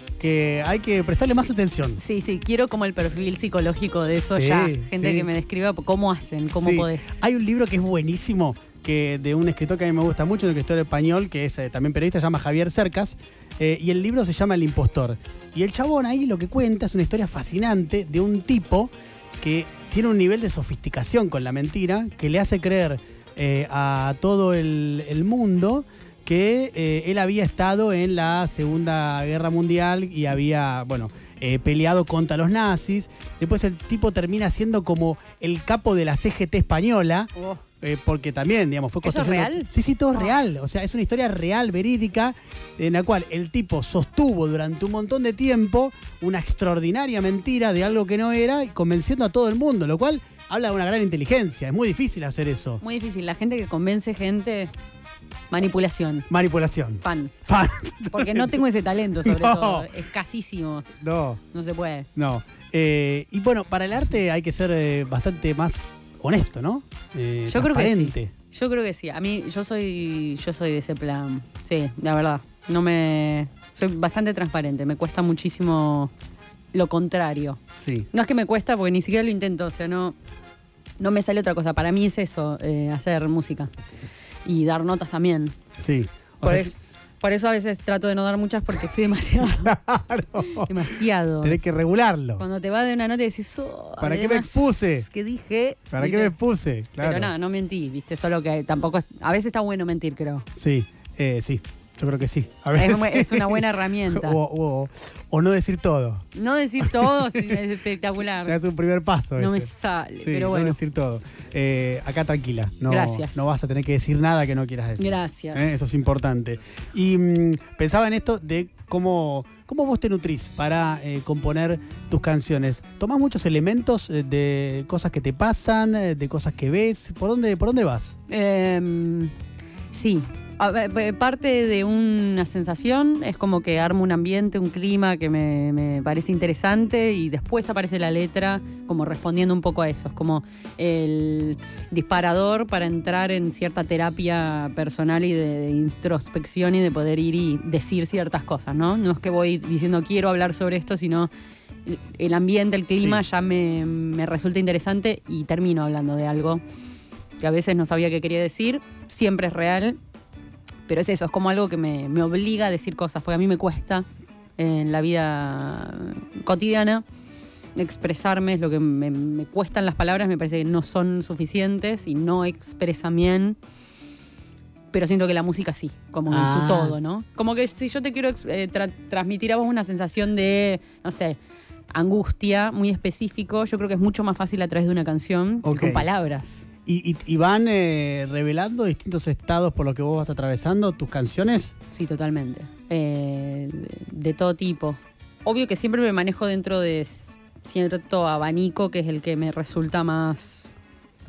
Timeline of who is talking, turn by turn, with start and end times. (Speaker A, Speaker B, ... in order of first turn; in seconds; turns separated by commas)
Speaker A: 0.2-2.0, Speaker B: 2.0-7.2, Speaker A: 4.2-5.3, Speaker A: 6.6-52.8, Speaker B: 37.4-37.6, Speaker B: 39.0-40.3, Speaker B: 52.8-54.7, Speaker B: 55.5-56.3, Speaker A: 56.3-58.6, Speaker B: 57.0-57.3, Speaker B: 58.1-60.9, Speaker A: 59.2-59.9, Speaker A: 61.0-61.4, Speaker B: 61.5-62.1, Speaker A: 62.1-68.3, Speaker B: 67.5-76.1, Speaker B: 76.7-77.6, Speaker A: 77.7-78.1, Speaker B: 78.1-80.2, Speaker B: 81.0-83.7, Speaker B: 84.4-85.6, Speaker A: 85.8-86.8, Speaker B: 86.4-89.8, Speaker A: 89.6-90.7, Speaker B: 90.6-91.6, Speaker A: 91.4-92.4, Speaker B: 92.4-96.3, Speaker A: 94.0-95.1, Speaker A: 95.9-97.3, Speaker B: 97.0-100.5, Speaker A: 100.5-106.3, Speaker B: 102.8-104.4, Speaker B: 106.3-108.6, Speaker A: 106.8-107.6, Speaker A: 108.4-128.2, Speaker B: 109.4-110.8, Speaker B: 112.9-113.5, Speaker B: 115.0-115.8, Speaker B: 128.3-129.3, Speaker B: 129.9-151.3, Speaker B: 151.8-156.6, Speaker B: 157.4-160.0, Speaker B: 160.9-167.0, Speaker B: 167.8-173.6, Speaker B: 174.9-181.4, Speaker A: 176.3-176.9, Speaker B: 181.9-186.6, Speaker A: 185.6-186.1, Speaker A: 186.8-191.8, Speaker B: 191.9-200.7